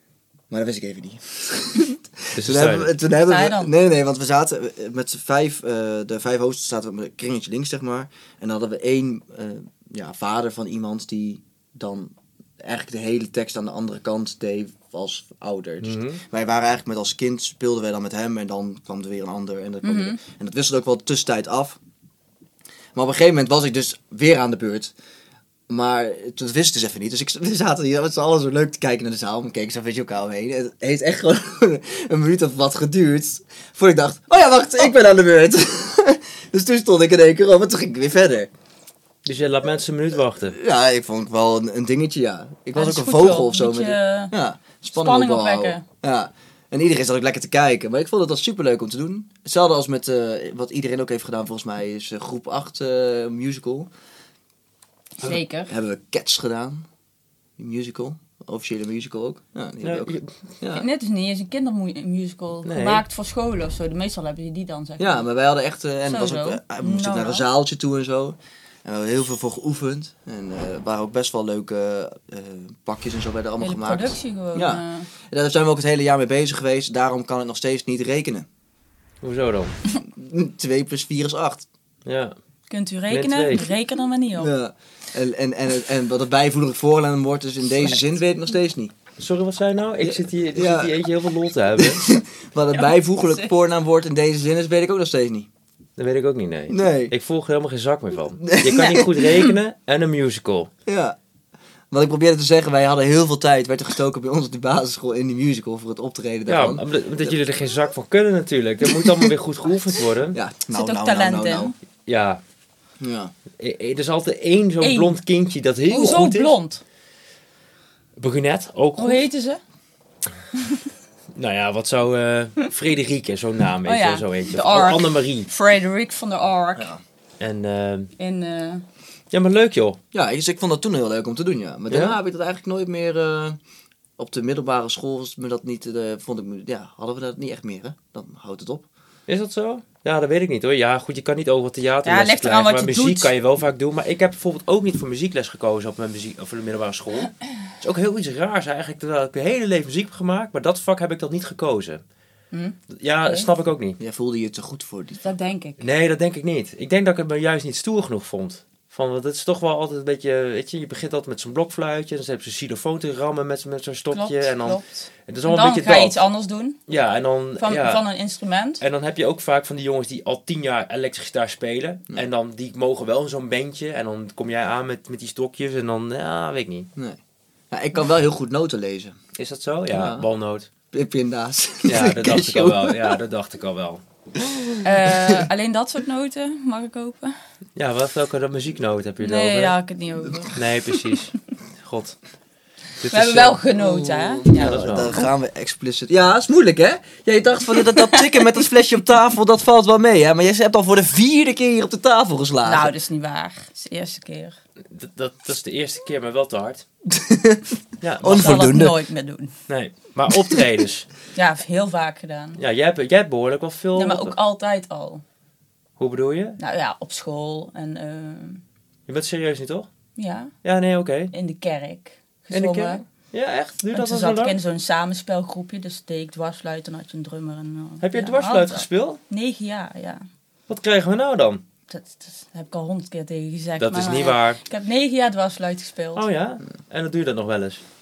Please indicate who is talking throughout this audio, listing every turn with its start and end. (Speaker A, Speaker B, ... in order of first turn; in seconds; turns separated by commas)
Speaker A: 0.5-21.8, Speaker B: 2.3-2.9, Speaker C: 3.2-3.7, Speaker B: 15.8-16.2, Speaker C: 19.8-20.2, Speaker A: 22.9-24.9, Speaker A: 25.7-38.5, Speaker B: 39.2-40.5, Speaker A: 40.5-53.9, Speaker C: 42.7-44.3, Speaker C: 44.9-45.8, Speaker C: 55.2-55.7, Speaker A: 55.2-56.8, Speaker A: 57.6-60.9, Speaker B: 59.8-60.3, Speaker C: 60.7-65.2, Speaker B: 62.6-63.0, Speaker A: 65.0-78.5, Speaker C: 66.0-67.5, Speaker C: 73.6-75.1, Speaker B: 79.2-79.7, Speaker A: 80.0-81.7, Speaker B: 82.0-82.3, Speaker C: 82.7-84.5, Speaker B: 83.1-83.7, Speaker A: 84.3-88.9, Speaker B: 89.2-92.2, Speaker A: 90.0-91.1, Speaker A: 91.8-95.5, Speaker C: 92.8-93.5, Speaker B: 96.0-100.7, Speaker A: 96.7-97.1, Speaker A: 98.4-99.0, Speaker C: 98.7-99.5, Speaker A: 100.8-101.2, Speaker A: 101.9-107.4, Speaker B: 106.5-110.4, Speaker A: 108.8-109.3, Speaker A: 110.3-111.7, Speaker C: 110.7-111.7, Speaker B: 112.0-112.4, Speaker A: 113.0-113.3, Speaker B: 113.6-116.5, Speaker C: 114.8-115.2, Speaker C: 115.9-116.8, Speaker B: 118.2-119.2, Speaker C: 119.0-119.6, Speaker B: 121.3-125.5, Speaker C: 123.8-126.9, Speaker B: 127.4-128.1, Speaker C: 128.2-128.8, Speaker B: 129.3-130.0, Speaker A: 130.1-133.6, Speaker B: 131.9-132.2, Speaker A: 134.2-138.8, Speaker B: 139.3-152.0, Speaker C: 142.0-143.3, Speaker C: 152.5-153.5, Speaker B: 152.9-154.0, Speaker A: 154.0-155.2, Speaker C: 155.2-155.8, Speaker B: 155.8-166.2, Speaker C: 164.1-166.8, Speaker B: 166.9-168.0, Speaker C: 167.6-168.8, Speaker B: 168.8-176.9, Speaker A: 177.7-179.2, Speaker B: 179.3-180.7, Speaker A: 179.9-180.2, Speaker A: 180.9-183.2, Speaker B: 181.8-184.0, Speaker A: 184.4-185.4, Speaker C: 184.8-187.4, Speaker B: 187.8-189.8, Speaker C: 189.2-191.0, Speaker B: 190.5-192.2, Speaker B: 193.0-193.6, Speaker C: 193.1-195.3, Speaker A: 193.8-202.9, Speaker B: 194.5-195.2, Speaker C: 197.8-198.6, Speaker C: 202.6-204.6, Speaker B: 204.8-206.8, Speaker A: 207.1-209.0, Speaker B: 208.0-208.6, Speaker C: 208.2-209.5, Speaker B: 209.7-211.1, Speaker C: 211.3-212.6, Speaker B: 212.6-214.3, Speaker C: 213.9-215.2, Speaker B: 216.0-216.6, Speaker C: 216.6-218.6, Speaker B: 219.1-219.9, Speaker C: 220.2-220.5, Speaker B: 220.6-221.3, Speaker C: 221.3-223.0, Speaker B: 222.5-224.6, Speaker C: 223.9-230.2, Speaker B: 228.0-229.2, Speaker B: 230.7-231.6, Speaker C: 231.9-236.2, Speaker B: 233.8-234.6, Speaker B: 236.2-237.8